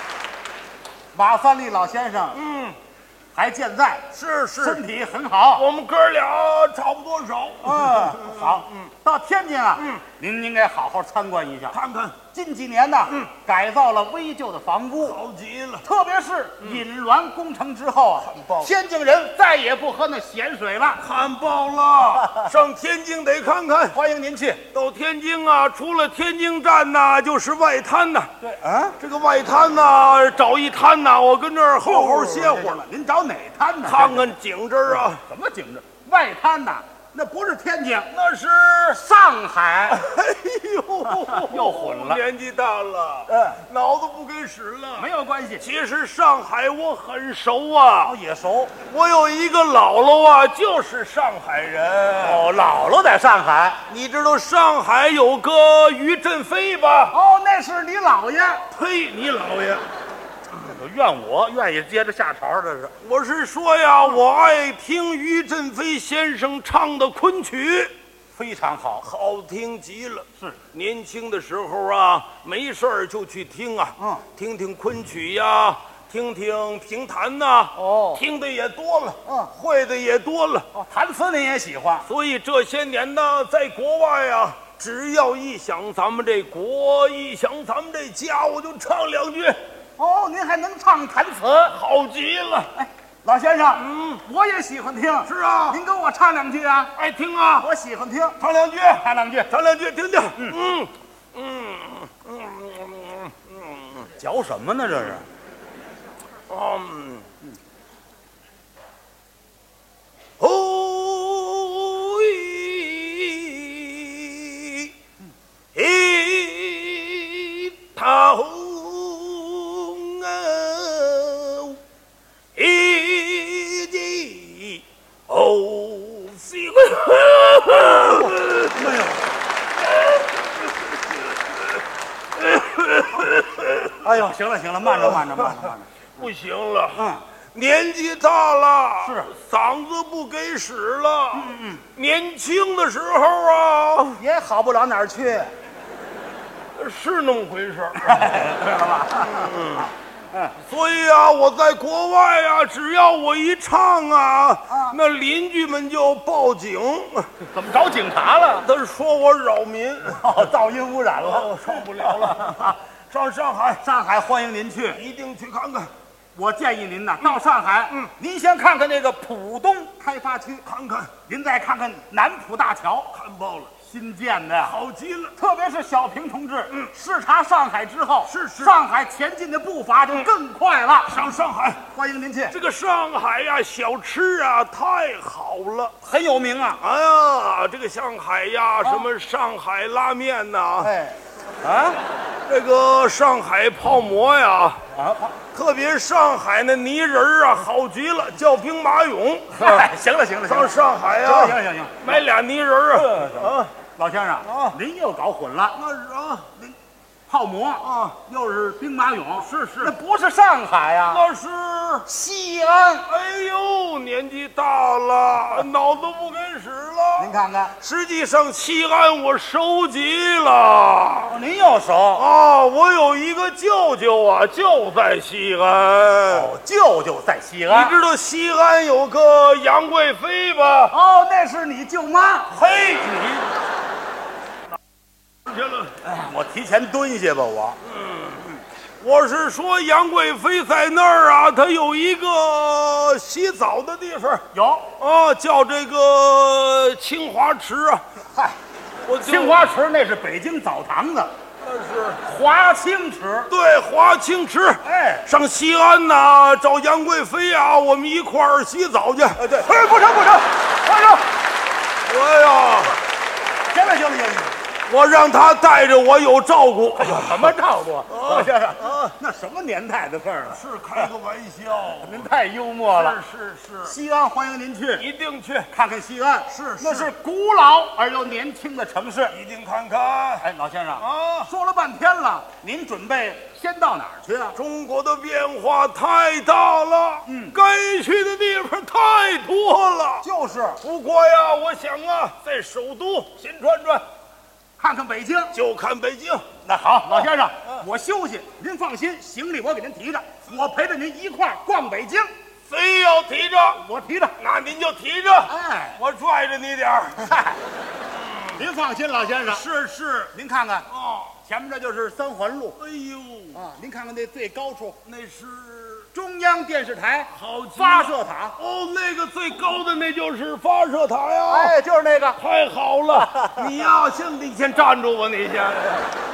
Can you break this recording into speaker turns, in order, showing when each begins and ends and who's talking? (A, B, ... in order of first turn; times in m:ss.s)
0:01.1-0:02.4 A
0:02.3-0:02.8 B
0:03.3-0:05.7 A
0:04.1-0:04.8 B
0:05.6-0:08.9 B
0:07.6-0:15.2 A
0:09.8-0:10.0 B
0:11.7-0:12.2 B
0:15.0-0:15.8 B
0:15.8-0:21.0 A
0:18.3-0:18.7 B
0:21.0-0:24.0 B
0:23.9-0:24.6 A
0:24.7-0:28.3 B
0:28.4-0:29.0 A
0:29.0-0:32.8 B
0:31.8-0:34.3 A
0:33.8-0:35.2 B
0:35.1-0:38.1 A
0:38.1-0:39.0 B
0:38.9-0:40.0 A
0:39.9-0:45.1 B
0:41.1-0:42.2 A
0:43.3-0:43.6 A
0:45.0-0:45.7 A
0:45.6-0:48.1 B
0:48.0-0:48.8 A
0:48.8-0:52.4 B
0:52.2-0:53.8 A
0:53.9-0:57.2 B
0:57.1-0:58.7 A
0:58.7-0:59.9 B
1:00.6-1:03.0 A
1:03.0-1:07.9 B
1:08.3-1:09.1 A
1:09.0-1:20.7 B
1:14.0-1:14.3 A
1:17.8-1:18.2 A
1:19.3-1:19.5 A
1:20.7-1:22.1 A
1:22.1-1:29.6 B
1:30.0-1:31.8 A
1:31.7-1:32.7 B
1:32.8-1:36.9 A
1:33.8-1:34.2 B
1:35.2-1:35.8 B
1:37.0-1:37.7 B
1:37.6-1:38.4 A
1:38.4-1:44.1 B
1:38.9-1:39.5 A
1:44.2-1:45.3 A
1:46.5-1:47.3 B
1:50.4-1:54.9 B
1:55.7-2:01.8 B
2:02.6-2:08.8 B
2:08.6-2:09.3 A
2:09.9-2:11.8 B
2:12.4-2:14.0 B
2:14.0-2:15.9 A
2:14.9-2:15.6 B
2:16.2-2:24.2 B
2:17.0-2:17.2 A
2:19.0-2:19.3 A
2:21.3-2:21.9 A
2:24.2-2:25.5 A
2:26.8-2:28.4 B
2:28.0-2:30.6 A
2:29.1-2:29.9 B
2:30.6-2:37.4 B
2:34.7-2:35.0 A
2:37.5-2:38.7 A
2:38.6-2:40.5 B
2:40.1-2:42.8 A
2:41.2-2:43.8 B
2:43.8-2:45.0 A
2:44.9-2:45.9 B
2:46.3-2:50.7 A
2:50.6-2:51.1 B
2:51.2-2:53.2 A
2:53.1-2:53.7 B
2:53.8-2:54.8 A
2:54.6-2:55.3 B
2:55.4-3:01.2 A
2:58.3-2:58.8 B
3:01.1-3:01.9 B
3:01.9-3:02.6 A
3:02.5-3:06.0 B
3:06.0-3:06.8 A
3:06.8-3:10.9 B
3:08.8-3:09.1 A
3:10.8-3:12.0 A
3:12.5-3:14.8 B
3:14.9-3:15.4 A
3:15.5-3:19.9 B
3:19.5-3:22.2 A
3:20.5-3:23.7 B
3:23.0-3:25.8 A
3:24.4-3:24.8 B
3:25.8-3:26.8 B
3:27.3-3:31.2 A
3:27.8-3:28.2 B
3:29.5-3:29.9 B
3:31.1-3:32.1 B
3:32.1-3:33.1 A
3:33.1-3:41.4 B
3:37.2-3:37.8 A
3:41.3-3:42.3 A
3:42.2-3:46.5 B
3:46.3-3:48.0 A
3:47.7-3:51.0 B
3:50.9-3:52.6 A
3:52.5-3:53.5 B
3:55.4-3:56.0 B
3:56.0-3:57.8 A
3:57.9-4:08.0 B
4:04.5-4:04.9 A
4:08.2-4:08.6 A
4:09.1-4:09.7 B
4:09.2-4:11.3 A
4:11.6-4:12.2 B
4:12.2-4:13.5 A
4:13.5-4:19.4 B
4:14.8-4:15.3 A
4:19.4-4:21.3 A
4:22.0-4:23.0 B
4:23.7-4:24.6 A
4:24.9-4:27.6 B
4:27.0-4:30.6 A
4:28.1-4:29.1 B
4:30.5-4:32.3 B
4:32.0-4:33.2 A
4:32.9-4:34.0 B
4:33.8-4:35.1 A
4:35.0-4:35.7 B
4:35.7-4:39.4 A
4:36.5-4:37.1 B
4:39.3-4:40.5 B
4:40.4-4:44.6 A
4:41.0-4:41.5 B
4:44.5-4:50.3 B
4:47.3-4:47.6 A
4:50.2-4:50.8 A
4:50.8-4:54.1 B
4:54.8-4:55.6 A
4:55.5-4:56.5 B
4:56.6-5:02.3 A
4:57.1-4:57.8 B
5:02.7-5:03.8 B
5:03.8-5:04.4 A
5:04.4-5:07.4 B
5:05.5-5:06.0 A
5:07.2-5:07.6 A
5:08.3-5:08.6 B
5:08.5-5:10.9 A
5:09.6-5:10.1 B
5:10.9-5:11.4 B
5:11.4-5:12.8 A
5:12.8-5:13.6 B
5:13.5-5:15.0 A
5:15.1-5:16.1 B
5:16.1-5:18.6 A
5:17.3-5:21.8 B
5:21.5-5:22.4 A
5:22.4-5:26.1 B
5:23.1-5:23.7 A